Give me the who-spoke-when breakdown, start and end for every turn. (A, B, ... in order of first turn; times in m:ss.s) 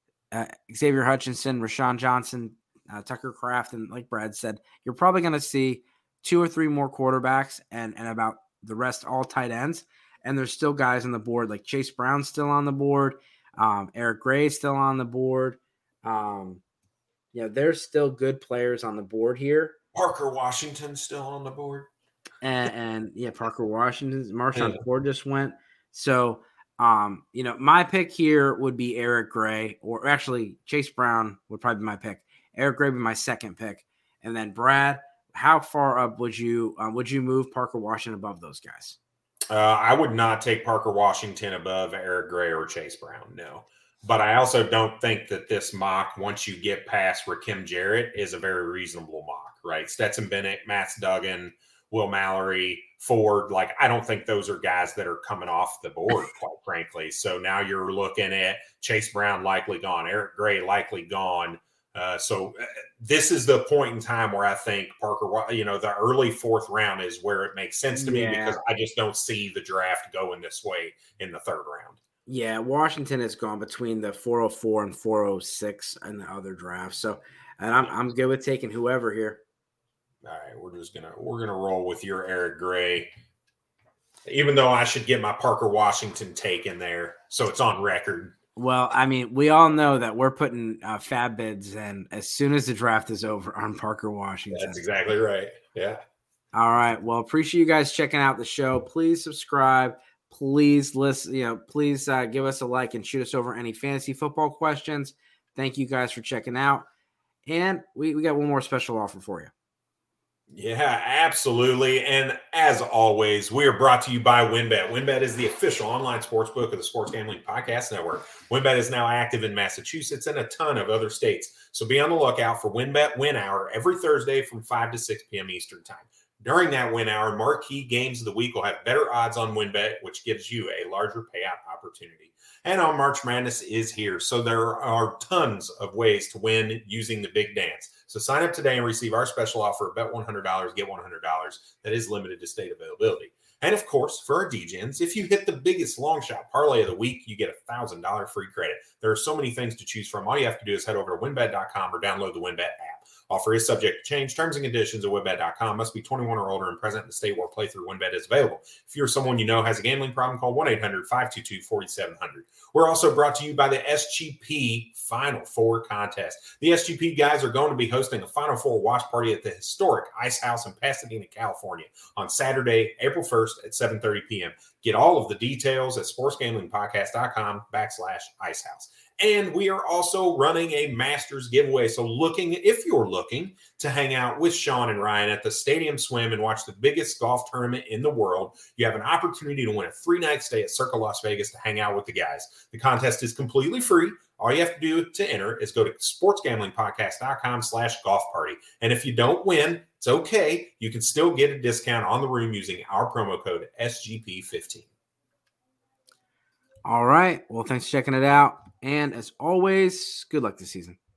0:00.3-0:16.6 A
0:17.3-0:19.8 A
0:20.0-0:21.9 B
0:22.4-0:39.0 A
0:24.6-0:24.8 B
0:39.5-1:12.0 B
1:07.9-1:08.6 A
1:12.3-1:19.4 A
1:20.2-1:23.1 B
1:24.3-1:28.4 B
1:28.6-1:34.8 A
1:34.5-1:36.0 B
1:36.5-1:46.9 A
1:47.5-1:49.5 A
1:50.5-3:24.9 B
3:26.8-3:31.0 A